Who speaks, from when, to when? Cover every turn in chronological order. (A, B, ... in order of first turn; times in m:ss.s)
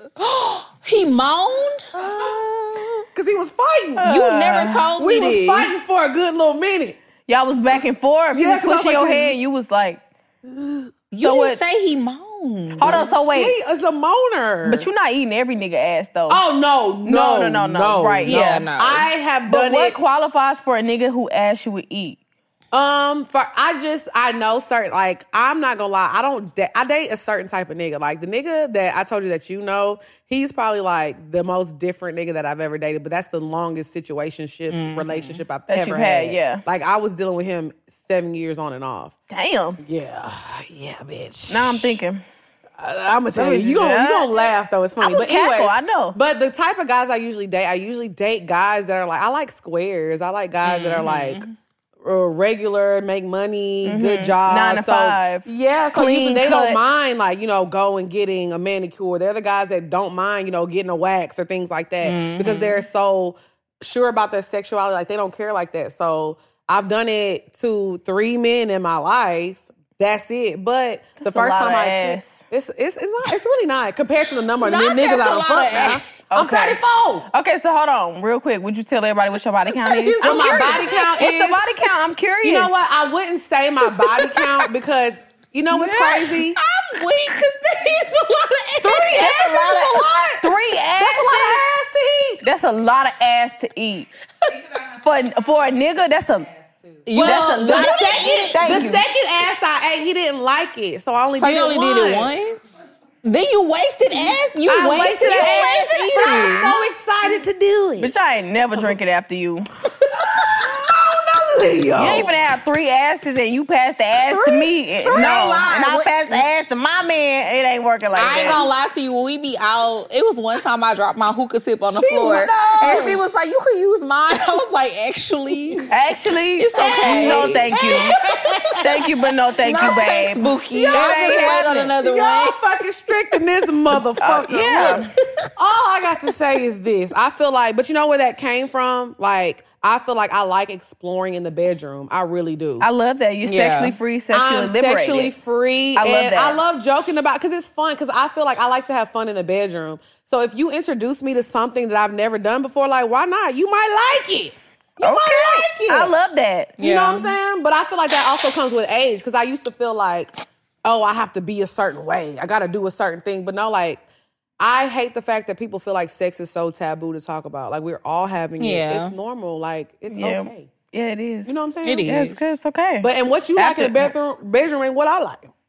0:00.2-0:01.9 A
0:01.9-0:04.1 B
0:04.0-0:04.9 C
0:04.0-0:05.7 A
0:05.0-0:07.0 B
0:07.3-0:10.0 C
0:08.3-0:09.3 B
0:10.4-0:10.9 B
0:11.1-0:13.0 A
0:11.2-0:11.6 C
0:12.8-0:13.6 C
0:12.8-0:14.9 B
0:14.6-0:16.4 C
0:16.3-0:20.0 B
0:17.0-0:18.7 C
0:18.2-0:19.1 A
0:19.5-0:22.2 C
0:22.7-0:39.1 B
0:34.7-0:35.4 A
0:35.7-0:36.6 C
0:39.3-0:39.8 C
0:39.8-0:42.0 B
0:41.5-0:42.2 C
0:42.8-0:51.4 B
0:43.3-0:46.2 C
0:50.6-0:51.6 A
0:52.0-1:17.3 B
0:53.8-0:56.8 C
1:02.0-1:02.8 A
1:11.2-1:12.4 C
1:14.6-1:16.0 A
1:16.3-1:22.9 C
1:19.7-1:21.1 A
1:20.2-1:21.6 B
1:22.4-1:26.6 B
1:24.1-1:24.5 A
1:25.7-1:26.3 C
1:26.2-1:29.3 A
1:28.8-1:32.4 B
1:28.9-1:31.7 C
1:32.4-1:34.1 C
1:35.0-1:36.5 C
1:37.0-1:38.8 A
1:37.1-1:42.3 B
1:37.2-1:39.0 C
1:41.4-1:42.6 A
1:43.2-1:46.8 A
1:44.7-1:48.1 B
1:46.2-1:46.7 C
1:48.0-1:49.7 C
1:50.3-1:52.4 B
1:52.0-1:58.6 C
1:54.2-1:55.6 B
1:55.1-1:56.4 A
1:58.1-2:05.9 A
2:01.9-2:03.2 C
2:05.9-2:08.2 C
2:06.6-2:08.6 A
2:06.8-2:09.0 B
2:08.8-2:11.9 C
2:09.6-2:12.6 A
2:10.7-2:22.9 B
2:14.2-2:15.1 C
2:14.7-2:15.4 A
2:22.8-2:25.3 C
2:23.4-2:24.0 A
2:24.3-2:36.1 B
2:26.0-2:26.6 C
2:35.0-2:36.8 C
2:36.8-2:37.4 A
2:36.8-2:40.3 B
2:40.8-2:44.0 B
2:44.6-2:50.7 B
2:48.6-2:49.1 A
2:50.1-2:54.1 C
2:51.4-2:52.1 B
2:51.8-2:52.4 A
2:53.0-2:55.5 B